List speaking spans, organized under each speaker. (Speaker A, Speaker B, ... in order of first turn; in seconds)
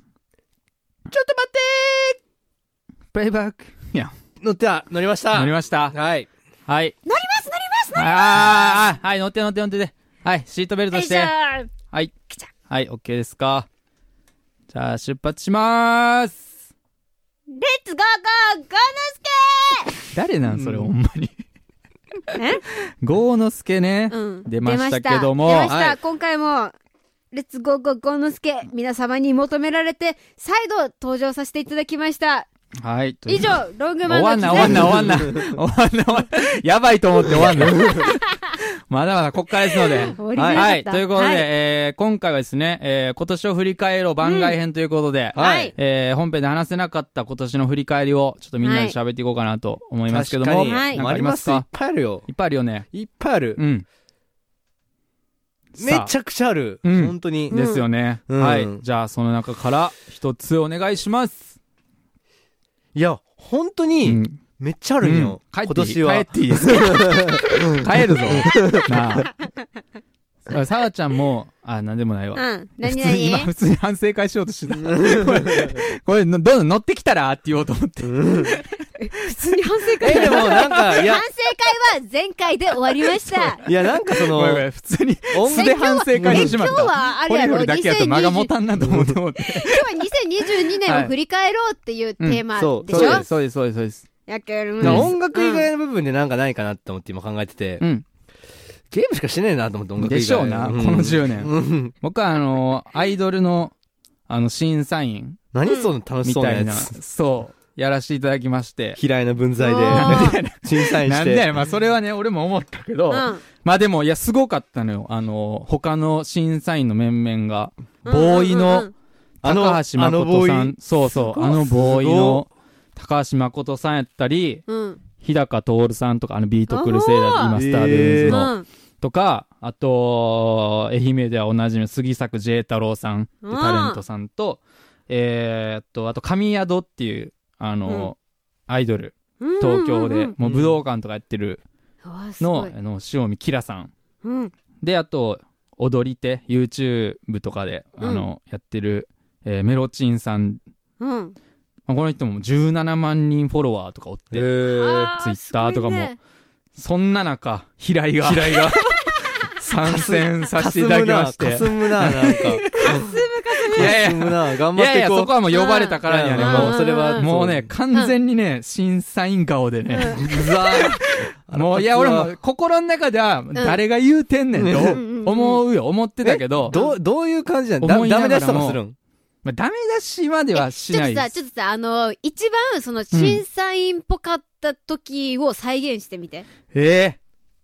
Speaker A: 1.1-2.2, 4.4-6.3, 20.6-20.9, 25.7-26.0, 34.6-35.4, 37.6-38.0, 40.4-40.7, 45.3-45.7, 50.1-52.3, 52.9-53.6, 55.8-57.6, 58.3-58.8, 63.0-67.6, 68.3-68.8, 75.0-75.7, 78.0-78.5, 80.0-81.2, 83.6-84.7, 85.3-86.5, 88.8-89.2, 92.5-93.2, 94.8-97.8, 98.9-101.9, 105.5-106.9, 109.0-111.5, 119.4-120.8, 121.5-122.4, 127.5-128.5, 140.4-140.8, 154.3-155.1, 158.2-158.9, 159.8-163.0, 163.7-165.4, 166.1-167.7, 170.1-172.3, 174.6-175.0, 176.2-179.0
Speaker B: 3.1-4.1, 5.3-6.0, 6.7-7.0, 8.0-11.3, 12.7-13.7, 14.7-16.4, 20.1-21.3, 23.0-25.7, 32.8-51.7, 52.3-52.9, 53.5-53.8, 55.8-56.1, 56.8-61.5, 64.0-64.4, 65.0-69.3, 70.5-78.8, 80.1-80.9, 83.1-89.9, 90.8-91.1, 92.2-94.0, 94.8-95.1, 97.8-98.0, 100.0-103.7, 104.3-105.4, 106.2-109.0, 109.9-118.9, 119.4-124.6, 125.2-138.2, 138.7-141.6, 142.4-143.9, 144.8-150.6, 151.9-154.5, 155.1-156.1, 156.7-158.7, 159.4-162.9, 163.7-176.8, 177.8-178.8, 179.4-181.3, 183.1-183.4, 186.7-187.2
Speaker C: 7.0-8.7, 10.9-11.7, 17.6-19.9, 22.3-22.6, 24.1-26.7, 27.3-32.5, 33.3-35.1, 39.9-41.5, 44.2-44.5, 45.3-45.7, 48.6-49.0, 50.6-51.0, 57.5-57.8, 72.3-73.5, 79.0-83.6, 85.4-88.5, 89.4-93.3, 94.3-95.7, 105.6-105.9, 109.6-110.4, 113.1-113.4, 118.0-118.9, 121.1-121.6, 124.7-125.0, 126.7-127.6, 128.2-128.7, 133.4-134.0, 137.9-138.1, 139.4-140.3, 142.0-142.7, 144.2-144.5, 148.0-148.3, 151.0-151.4, 154.7-156.2, 162.3-164.0, 165.5-167.3, 169.9-170.4, 173.6-173.8, 174.8-175.6, 176.7-177.0, 180.5-186.5